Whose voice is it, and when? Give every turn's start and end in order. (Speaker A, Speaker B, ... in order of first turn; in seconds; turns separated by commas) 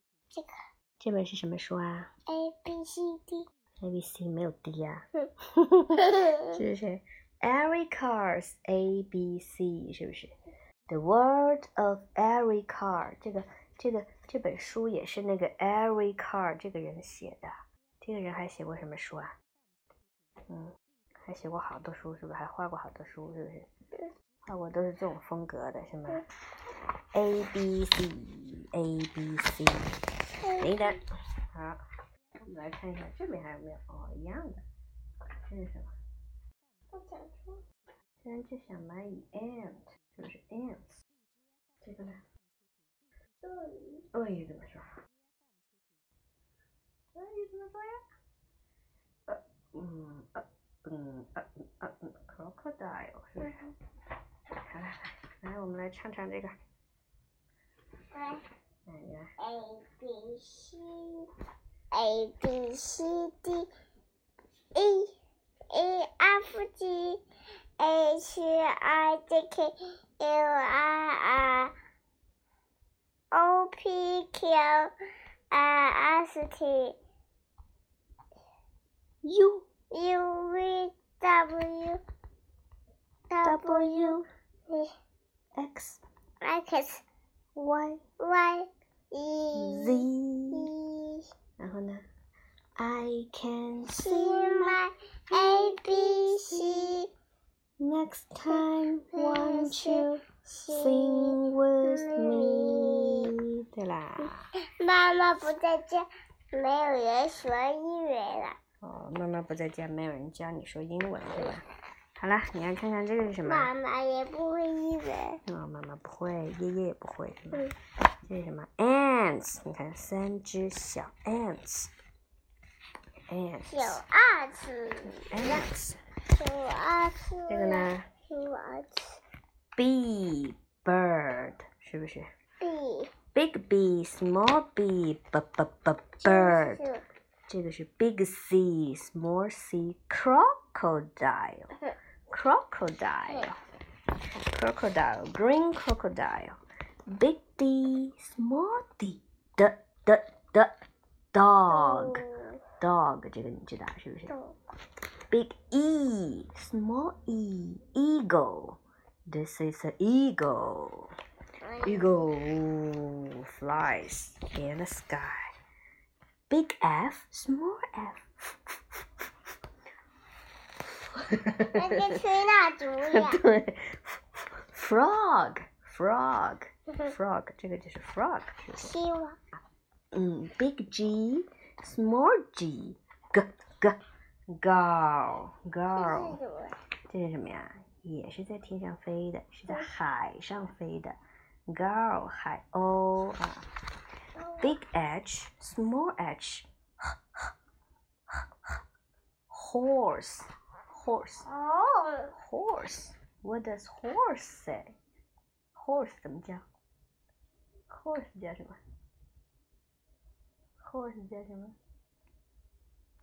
Speaker A: 1.0-2.1, Speaker B: 2.3-3.5, Speaker A: 3.8-10.3, Speaker B: 6.0-6.5, Speaker A: 10.9-19.3, Speaker A: 21.2-23.7, Speaker A: 24.4-26.2, Speaker A: 27.1-29.9, Speaker B: 30.4-31.0, Speaker A: 30.6-31.0, Speaker A: 31.5-31.8, Speaker A: 32.5-34.6, Speaker A: 35.5-35.9, Speaker B: 36.9-37.6, Speaker A: 38.2-41.0, Speaker A: 41.8-42.2, Speaker B: 43.4-44.1, Speaker A: 44.1-44.9, Speaker A: 47.1-48.0, Speaker A: 49.3-53.6, Speaker B: 53.4-53.7, Speaker A: 54.6-56.5, Speaker B: 58.1-58.4, Speaker A: 58.9-59.3, Speaker B: 59.4-61.3, Speaker B: 61.9-63.7, Speaker B: 64.8-65.1, Speaker B: 65.7-67.2, Speaker B: 67.8-71.7, Speaker B: 73.3-74.9, Speaker B: 75.5-77.0, Speaker A: 79.2-79.7, Speaker B: 79.9-82.0, Speaker B: 83.3-84.9, Speaker A: 83.4-84.3, Speaker A: 85.6-86.0, Speaker B: 86.4-87.0, Speaker A: 87.6-88.0, Speaker B: 88.2-91.3, Speaker A: 89.5-90.7, Speaker A: 91.6-92.0, Speaker A: 92.8-94.8, Speaker B: 93.9-97.1, Speaker A: 95.3-97.0, Speaker A: 97.8-104.5, Speaker B: 98.5-103.3, Speaker B: 104.2-108.6, Speaker A: 108.8-111.7, Speaker A: 112.2-113.7, Speaker B: 113.5-115.4, Speaker A: 115.5-117.6, Speaker A: 118.3-121.9, Speaker A: 123.3-124.0, Speaker B: 123.7-125.6, Speaker A: 125.2-126.0, Speaker B: 126.3-129.2, Speaker A: 127.5-128.1, Speaker A: 129.8-132.3, Speaker B: 132.6-133.1, Speaker A: 133.3-136.8, Speaker B: 136.2-137.1, Speaker A: 137.5-141.7, Speaker A: 142.3-143.6, Speaker A: 144.3-146.6, Speaker A: 147.1-150.7, Speaker A: 151.3-152.2, Speaker B: 151.7-152.6, Speaker A: 152.8-154.3, Speaker B: 154.3-154.6, Speaker A: 155.3-161.1, Speaker B: 161.6-162.2, Speaker A: 161.8-165.5, Speaker A: 166.5-168.7, Speaker A: 171.1-172.1, Speaker B: 171.8-173.4, Speaker A: 173.0-178.9, Speaker B: 178.8-179.4, Speaker A: 180.1-184.0, Speaker A: 184.5-186.4, Speaker B: 186.0-186.8, Speaker A: 187.1-191.2, Speaker A: 191.7-193.7, Speaker B: 194.4-194.8, Speaker A: 194.6-196.7, Speaker A: 199.5-201.5, Speaker B: 201.5-202.3, Speaker A: 202.3-204.9, Speaker A: 205.8-206.6, Speaker A: 207.9-208.8, Speaker A: 210.8-211.8